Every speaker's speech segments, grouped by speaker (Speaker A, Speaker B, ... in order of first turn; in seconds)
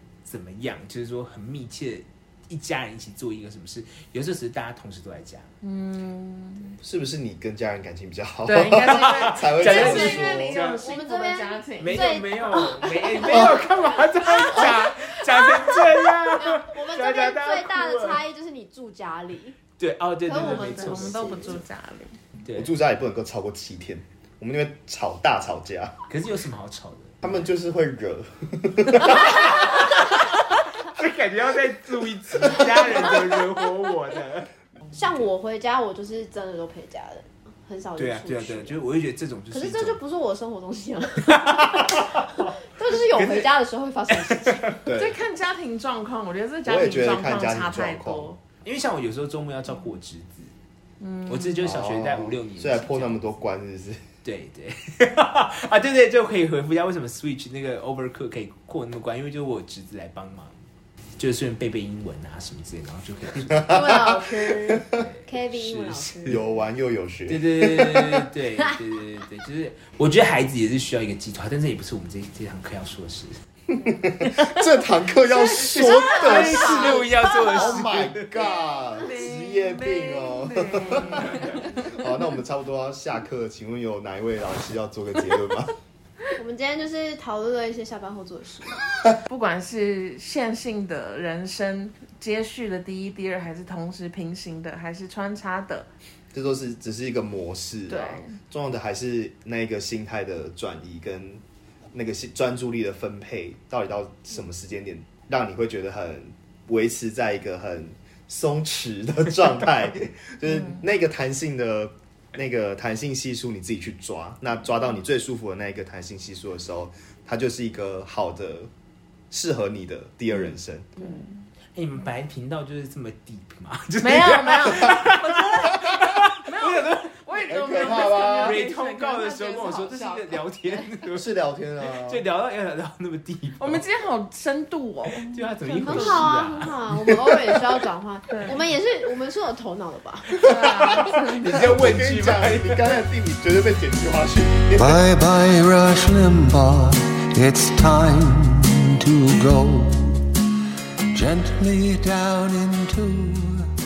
Speaker A: 0.2-5.5, 8.7-10.9, 11.8-18.2, 19.8-21.6, 22.4-22.7, 26.1-27.5, 29.1-34.5, 38.0-40.0, 41.3-43.5, 44.1-44.9, 48.6-50.5, 51.3-53.2, 54.2-60.5, 61.2-64.0, 64.9-66.4, 67.3-73.4, 74.2-74.7, 75.2-78.3, 121.8-131.3, 131.9-133.9, 135.2-136.8, 140.5-143.0
Speaker B: 5.6-6.7, 8.5-12.2, 20.3-22.2, 45.0-48.4, 51.0-51.7, 76.1-77.8, 79.0-82.1, 89.3-95.9, 97.9-98.4, 121.0-121.4, 124.0-130.9, 133.6-136.3, 140.4-141.6
Speaker C: 6.8-10.6, 13.3-13.6, 22.5-26.0, 27.2-29.8, 44.9-45.2, 46.7-48.3, 51.6-54.0, 63.7-64.0, 64.8-65.0, 66.3-68.2, 73.7-85.8, 96.3-101.4, 101.9-118.7, 119.3-120.9, 127.5-128.6, 131.1-132.2, 140.5-145.0
Speaker D: 9.6-19.6, 20.2-21.6, 34.9-38.8, 39.5-44.7, 63.6-66.4, 75.8-77.1, 86.4-88.8, 135.8-140.4
Speaker E: 144.8-150.3, 151.1-153.7